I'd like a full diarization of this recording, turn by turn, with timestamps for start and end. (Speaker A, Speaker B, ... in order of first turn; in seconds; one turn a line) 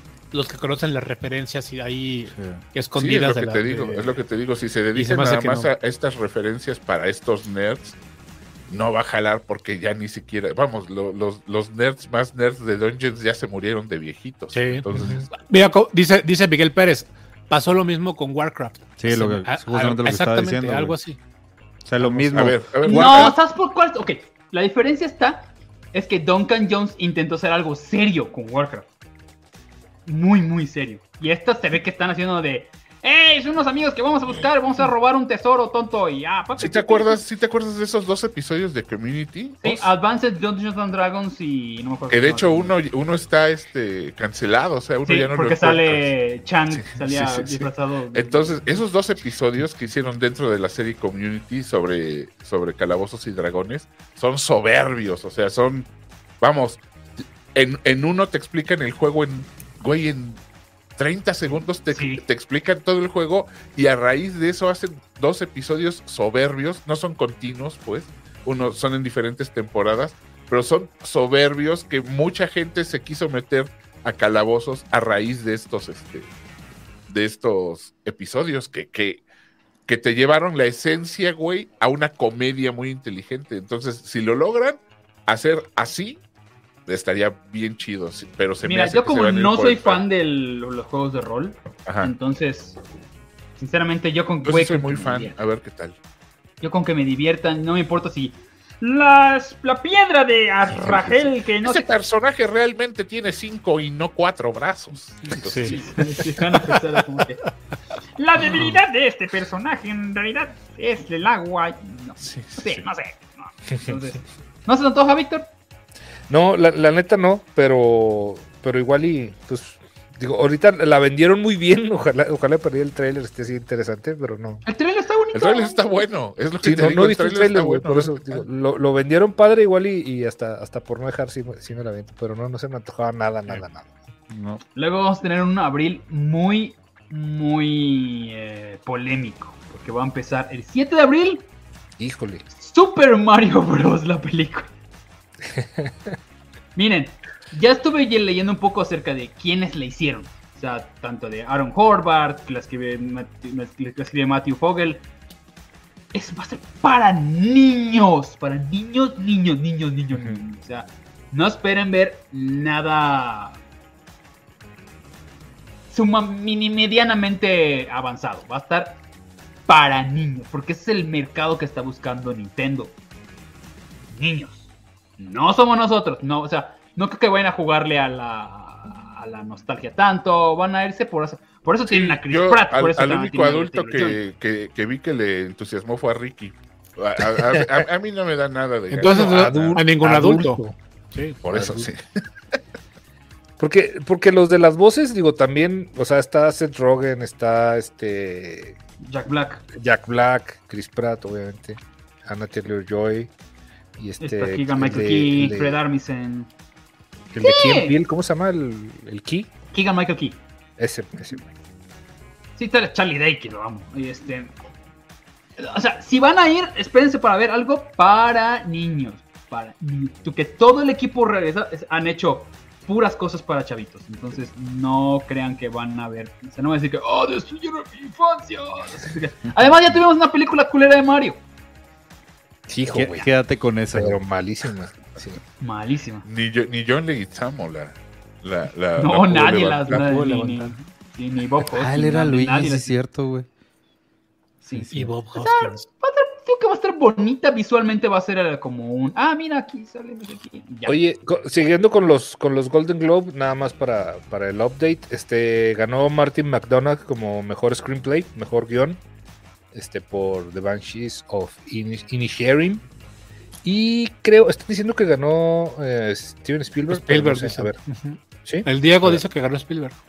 Speaker A: 0.3-4.2
Speaker B: 2.4-2.6
Speaker C: 3.0-8.0
Speaker A: 5.0-5.7
Speaker C: 8.7-15.3
Speaker A: 14.5-14.9
Speaker D: 14.9-15.2
Speaker A: 15.4-21.2
Speaker B: 19.0-21.0
Speaker B: 21.9-23.1
Speaker A: 22.0-23.3
Speaker C: 22.3-23.4
Speaker E: 22.8-28.9
Speaker E: 30.1-37.2
Speaker C: 36.6-39.9
Speaker E: 39.6-42.8
Speaker C: 42.1-46.1
Speaker E: 45.0-48.8
Speaker C: 46.8-55.9
Speaker C: 56.4-60.4
Speaker C: 61.0-76.3
Speaker E: 61.9-62.2
Speaker C: 77.1-79.2
Speaker C: 79.9-86.2
Speaker C: 86.9-90.0
Speaker E: 88.6-92.8
Speaker C: 91.9-92.1
Speaker E: 93.6-95.4
Speaker C: 94.5-96.0
Speaker E: 96.6-101.9
Speaker C: 100.8-106.1
Speaker A: 105.3-106.0
Speaker E: 105.6-107.4
Speaker E: 108.2-115.5
Speaker C: 112.2-112.8
Speaker D: 116.3-124.6
Speaker E: 124.7-126.1
Speaker C: 125.3-128.4
Speaker D: 126.6-133.9
Speaker B: 134.3-134.6
Speaker E: 134.8-141.5
Speaker D: 142.0-142.4
Speaker E: 142.6-144.7
Speaker D: 145.5-146.1
Speaker E: 146.8-155.0
Speaker E: 156.1-163.6
Speaker E: 165.9-169.0
Speaker E: 169.7-172.9
Speaker E: 174.1-174.7
Speaker E: 175.2-184.2
Speaker C: 181.9-189.8
Speaker D: 187.5-187.8
Speaker A: 188.9-190.6
Speaker D: 189.1-190.8
Speaker A: 191.1-191.4
Speaker C: 191.4-192.0
Speaker D: 191.4-191.9
Speaker D: 193.6-198.8
Speaker E: 199.0-199.6
Speaker D: 199.7-203.3
Speaker D: 204.0-205.8
Speaker E: 204.2-206.5
Speaker D: 207.3-209.5
Speaker E: 207.4-208.0
Speaker E: 209.7-210.4
Speaker D: 210.8-211.5
Speaker E: 212.6-214.5
Speaker E: 215.6-231.4
Speaker D: 232.7-233.3
Speaker B: 232.9-234.2
Speaker D: 233.9-235.4
Speaker E: 235.6-236.3
Speaker C: 236.2-240.1
Speaker E: 239.0-243.0
Speaker A: 239.9-240.8
Speaker B: 241.7-243.5
Speaker E: 244.6-251.0
Speaker B: 244.7-245.1
Speaker A: 244.9-245.8
Speaker D: 250.9-259.0
Speaker D: 259.7-262.8
Speaker D: 263.6-267.8
Speaker A: 266.9-270.0
Speaker D: 268.4-269.2